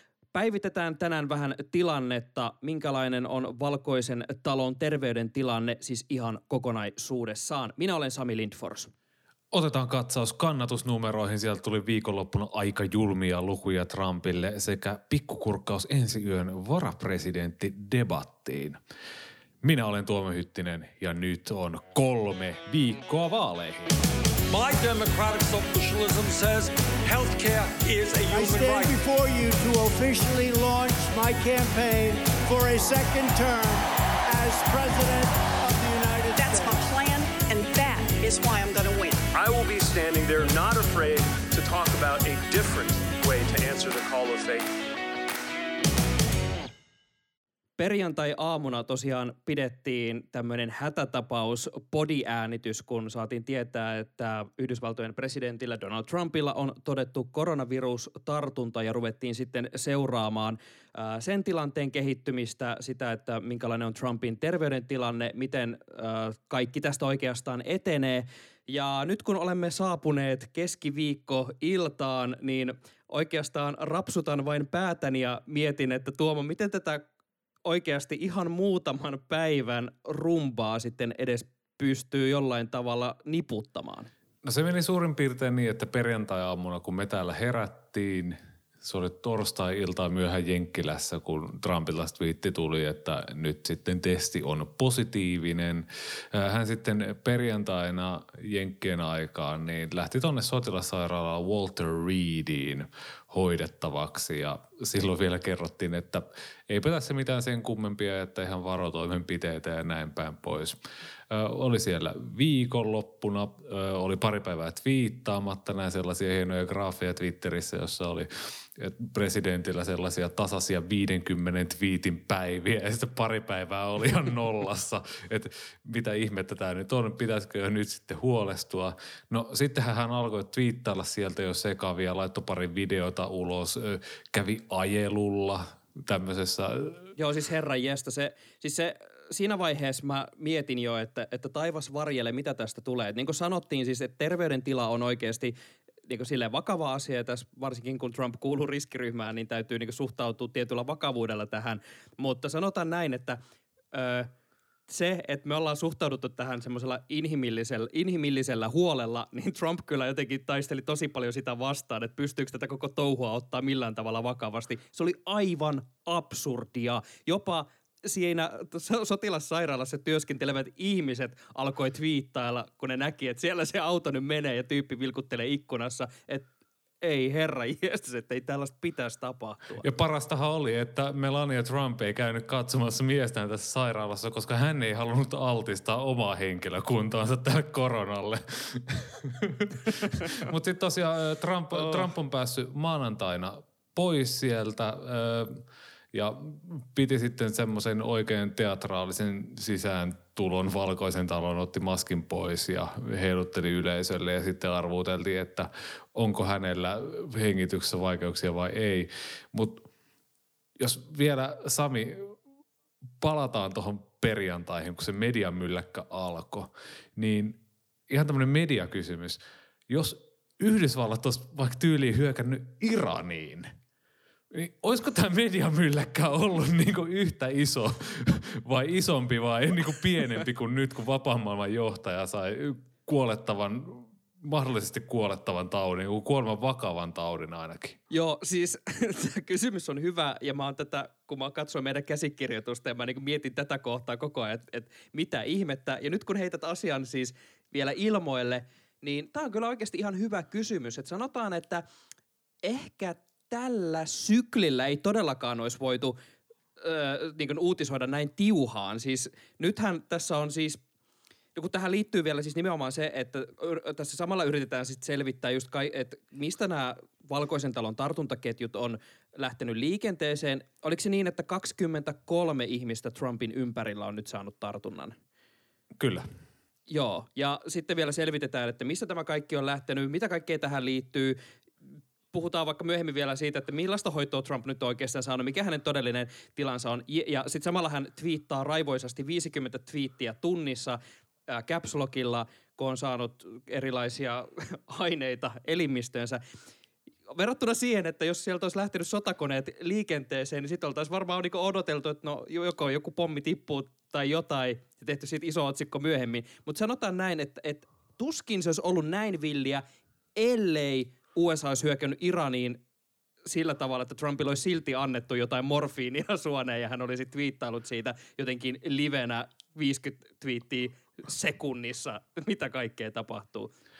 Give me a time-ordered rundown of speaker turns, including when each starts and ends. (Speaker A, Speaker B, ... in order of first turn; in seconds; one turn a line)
Speaker A: 0.3-8.9
Speaker B: 9.5-18.8
Speaker B: 19.6-23.9
Speaker C: 24.5-29.0
Speaker D: 28.3-36.7
Speaker E: 36.3-39.2
Speaker F: 39.3-44.7
Speaker A: 47.8-77.0
Speaker A: 77.6-84.1
Speaker B: 84.4-110.8
Speaker B: 111.3-137.1
Speaker A: 137.2-145.5
Speaker A: 146.1-153.4
Speaker A: 153.9-154.3
Speaker A: 154.9-176.5
Speaker A: 177.0-179.8
Speaker B: 179.8-209.8
Speaker B: 210.8-212.3
Speaker B: 213.2-223.7
Speaker B: 224.5-238.0
Speaker A: 238.1-251.8
Speaker A: 252.6-256.1
Speaker A: 256.8-260.8
Speaker A: 261.5-275.1
Speaker B: 276.0-276.2
Speaker A: 276.9-281.4
Speaker A: 282.3-291.0
Speaker A: 291.5-296.4
Speaker A: 297.3-309.8
Speaker A: 310.4-312.8
Speaker A: 313.4-323.7